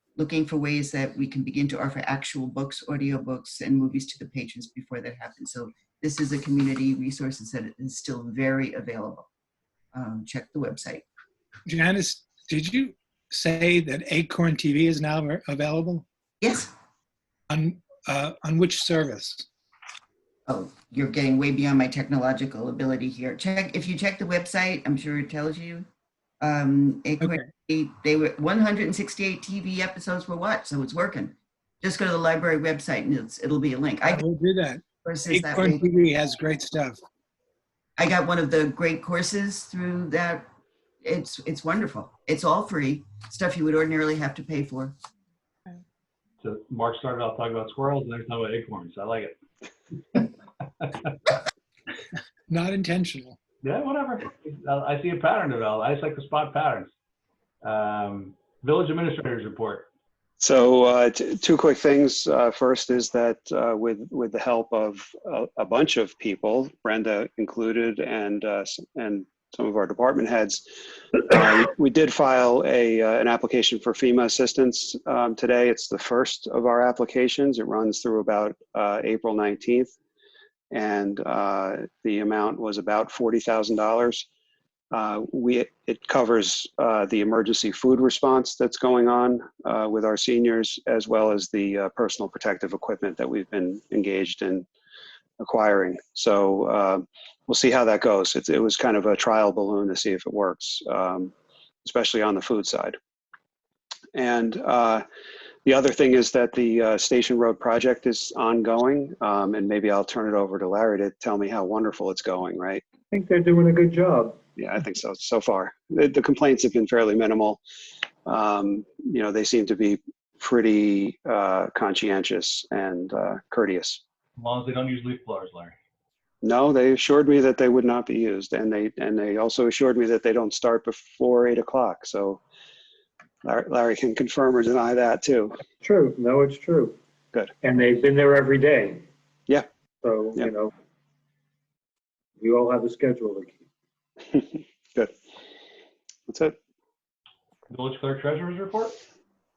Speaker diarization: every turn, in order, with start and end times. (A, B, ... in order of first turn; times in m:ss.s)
0:00.2-0:09.3 A
0:09.9-0:11.0 A
0:11.7-0:16.0 B
0:16.4-0:16.7 A
0:17.5-0:19.5 B
0:20.5-0:25.9 A
0:26.4-0:34.2 A
0:27.2-0:27.5 B
0:34.0-0:37.0 B
0:35.0-0:35.8 A
0:38.0-0:40.5 A
0:41.0-0:44.9 A
0:46.4-0:49.4 C
0:50.1-0:51.3 C
0:52.5-0:53.4 B
0:53.6-0:56.9 C
0:57.6-0:59.9 C
1:00.4-1:19.9 D
1:20.7-1:24.2 D
1:24.9-1:34.6 D
1:35.4-1:41.3 D
1:41.8-1:43.0 D
1:44.1-1:45.0 D
1:45.6-1:52.8 D
1:53.1-1:54.4 E
1:54.6-1:57.6 D
1:58.2-2:04.0 D
2:04.4-2:05.7 C
2:06.4-2:12.4 D
2:13.4-2:15.6 D
2:15.8-2:17.0 E
2:17.6-2:19.1 E
2:20.0-2:20.7 E
2:22.4-2:23.6 E
2:24.3-2:25.1 D
2:26.3-2:26.5 D
2:27.7-2:29.0 C